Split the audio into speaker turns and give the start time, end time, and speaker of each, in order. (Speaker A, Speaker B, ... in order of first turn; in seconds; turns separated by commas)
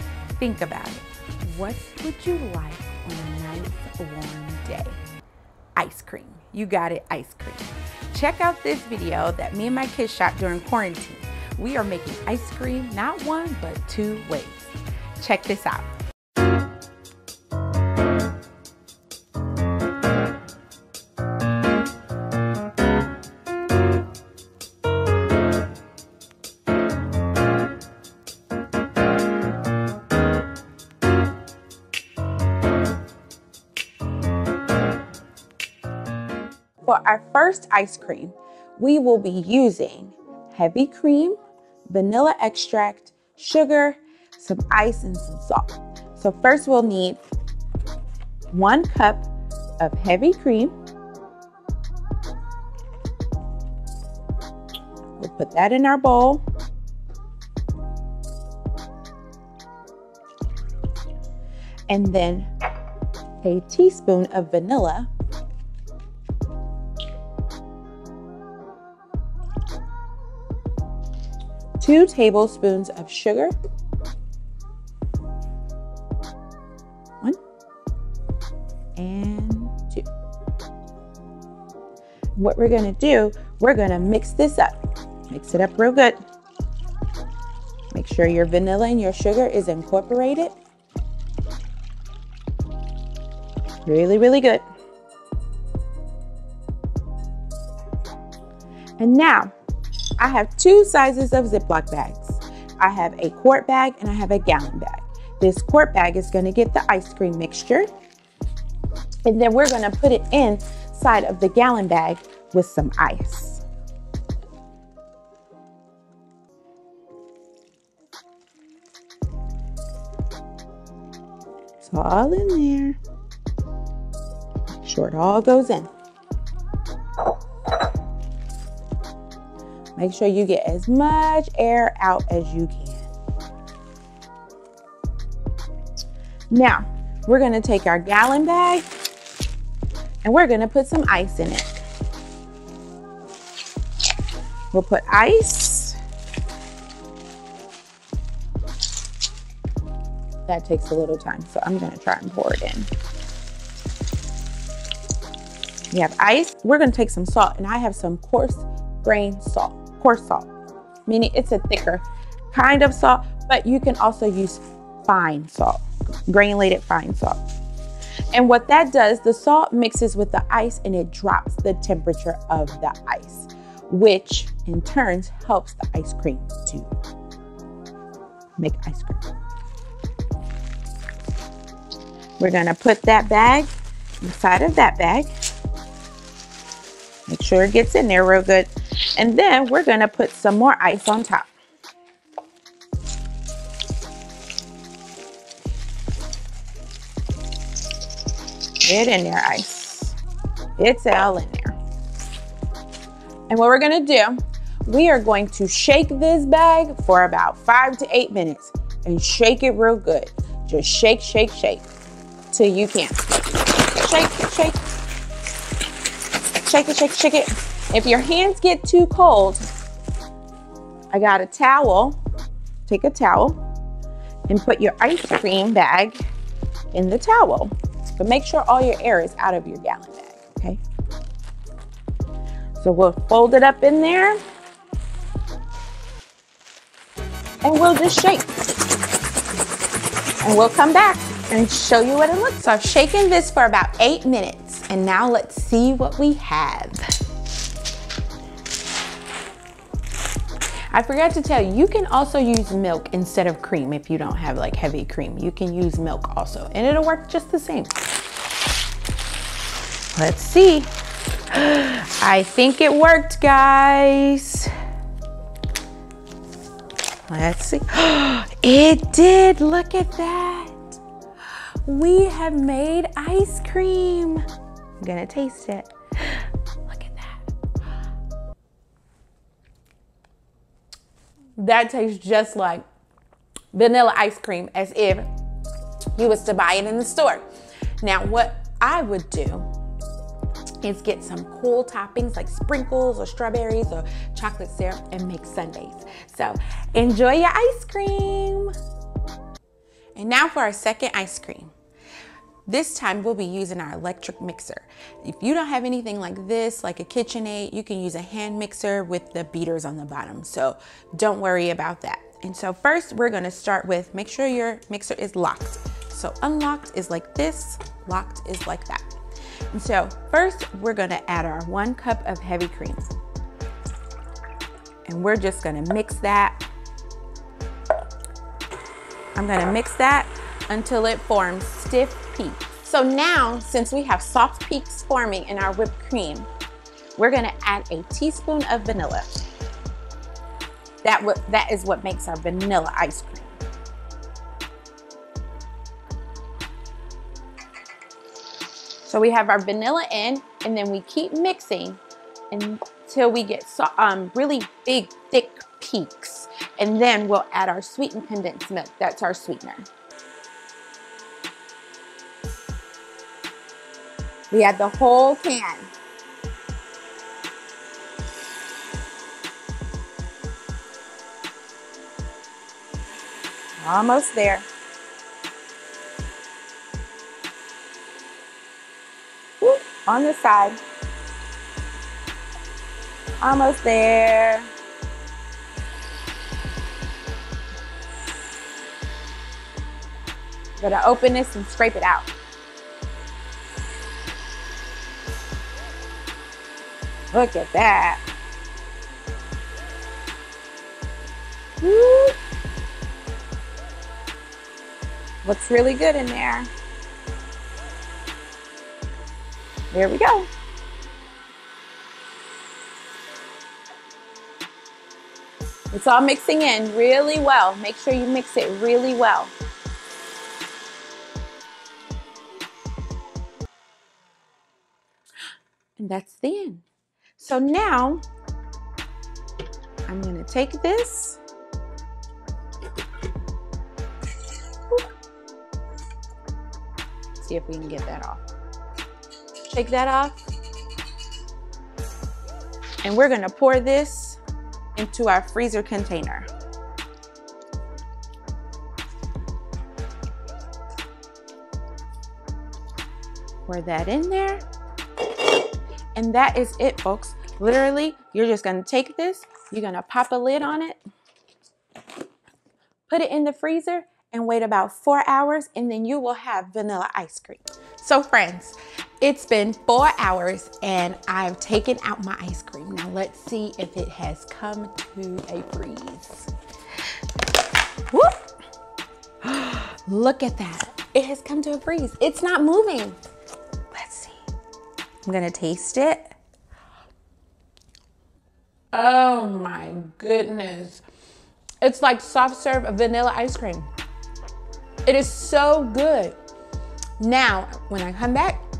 Speaker A: 0.4-5.0, Speaker A: 5.8-15.9, Speaker A: 36.8-41.4, Speaker A: 41.9-47.2, Speaker A: 48.5-49.3, Speaker A: 49.8-50.7, Speaker A: 55.2-56.4, Speaker A: 61.9-62.5, Speaker A: 63.4-65.1, Speaker A: 71.8-73.5, Speaker A: 79.0-80.0, Speaker A: 82.3-84.8, Speaker A: 85.3-86.2, Speaker A: 87.9-90.5, Speaker A: 93.8-94.6, Speaker A: 99.0-99.5, Speaker A: 100.2-107.9, Speaker A: 109.2-113.6, Speaker A: 121.8-123.0, Speaker A: 124.7-125.9, Speaker A: 130.0-133.1, Speaker A: 136.5-138.8, Speaker A: 140.2-141.8, Speaker A: 144.7-146.0, Speaker A: 150.4-152.9, Speaker A: 155.9-160.5, Speaker A: 161.1-167.4, Speaker A: 168.3-176.9, Speaker A: 178.6-179.2, Speaker A: 182.4-185.3, Speaker A: 187.3-191.5, Speaker A: 198.8-200.2, Speaker A: 200.8-201.7, Speaker A: 203.5-211.9, Speaker A: 212.5-213.2, Speaker A: 213.8-214.8, Speaker A: 216.6-219.6, Speaker A: 221.1-222.2, Speaker A: 222.8-223.6, Speaker A: 224.5-226.2, Speaker A: 226.9-230.8, Speaker A: 232.8-234.4, Speaker A: 237.6-238.5, Speaker A: 240.4-247.1, Speaker A: 250.9-258.0, Speaker A: 260.1-260.9, Speaker A: 261.5-264.7, Speaker A: 267.3-271.0, Speaker A: 271.8-274.4, Speaker A: 275.0-277.4, Speaker A: 281.6-282.8, Speaker A: 283.7-285.3, Speaker A: 286.1-287.5, Speaker A: 288.0-289.7, Speaker A: 290.8-298.7, Speaker A: 300.1-301.7, Speaker A: 302.6-319.1, Speaker A: 319.7-323.1, Speaker A: 325.0-326.6, Speaker A: 329.4-336.5, Speaker A: 337.2-339.4, Speaker A: 341.0-343.6, Speaker A: 349.0-352.0, Speaker A: 352.5-359.9, Speaker A: 364.5-365.9, Speaker A: 373.8-374.7, Speaker A: 379.6-380.8, Speaker A: 383.4-384.7, Speaker A: 390.8-392.3, Speaker A: 397.3-398.2, Speaker A: 401.8-402.4, Speaker A: 405.4-406.7, Speaker A: 409.9-410.5, Speaker A: 415.9-419.5, Speaker A: 426.0-426.8, Speaker A: 427.4-428.2, Speaker A: 430.1-431.4, Speaker A: 437.4-438.4, Speaker A: 439.7-440.4, Speaker A: 443.0-444.4, Speaker A: 444.9-446.5, Speaker A: 453.7-454.6, Speaker A: 456.1-461.0, Speaker A: 463.1-476.5, Speaker A: 478.1-478.4, Speaker A: 479.4-483.2, Speaker A: 483.9-484.4, Speaker A: 485.2-486.3, Speaker A: 488.9-491.0, Speaker A: 491.8-493.9, Speaker A: 495.1-496.4, Speaker A: 497.2-498.6